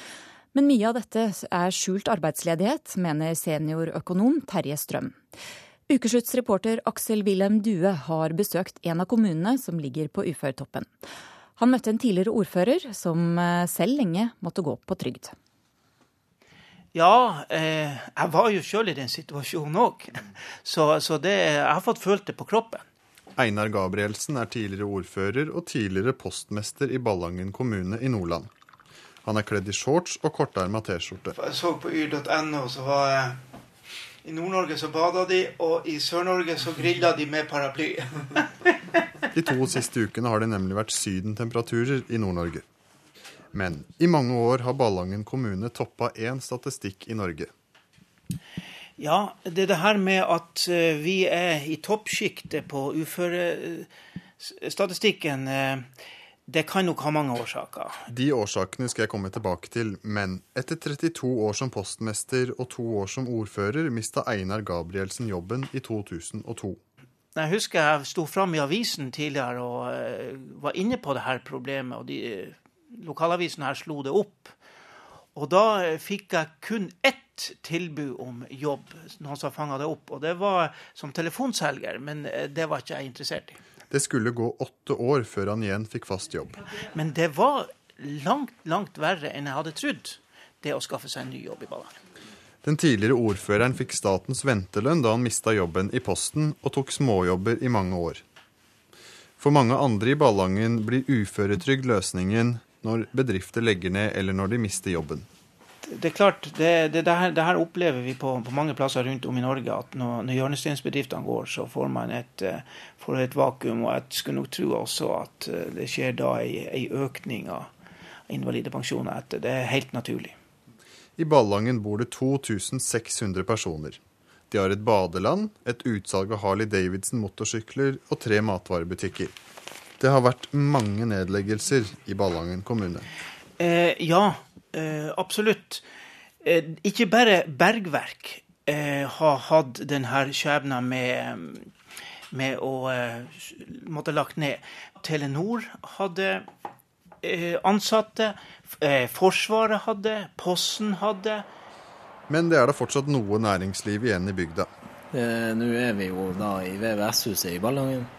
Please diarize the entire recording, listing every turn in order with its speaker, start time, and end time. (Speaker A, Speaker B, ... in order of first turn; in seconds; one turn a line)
Speaker A: 0.5-5.2
Speaker A: 5.9-10.9
Speaker A: 11.6-15.3
Speaker B: 16.9-22.8
Speaker C: 23.4-28.5
Speaker C: 29.2-31.4
Speaker B: 31.4-33.4
Speaker B: 34.2-38.1
Speaker C: 39.3-42.6
Speaker C: 43.5-47.5
Speaker B: 49.0-53.9
Speaker B: 54.4-55.9
Speaker B: 56.5-57.9
Speaker C: 58.1-66.8
Speaker B: 67.4-74.5
Speaker B: 75.3-83.6
Speaker C: 83.9-86.6
Speaker B: 87.0-92.0
Speaker C: 92.6-98.2
Speaker C: 99.4-105.3
Speaker B: 105.8-117.7
Speaker B: 118.3-120.4
Speaker C: 121.2-129.3
Speaker C: 130.0-133.1
Speaker B: 133.6-135.8
Speaker B: 136.4-141.7
Speaker B: 142.3-146.5
Speaker B: 147.2-151.4
Speaker C: 152.3-154.7
Speaker D: 155.1-158.1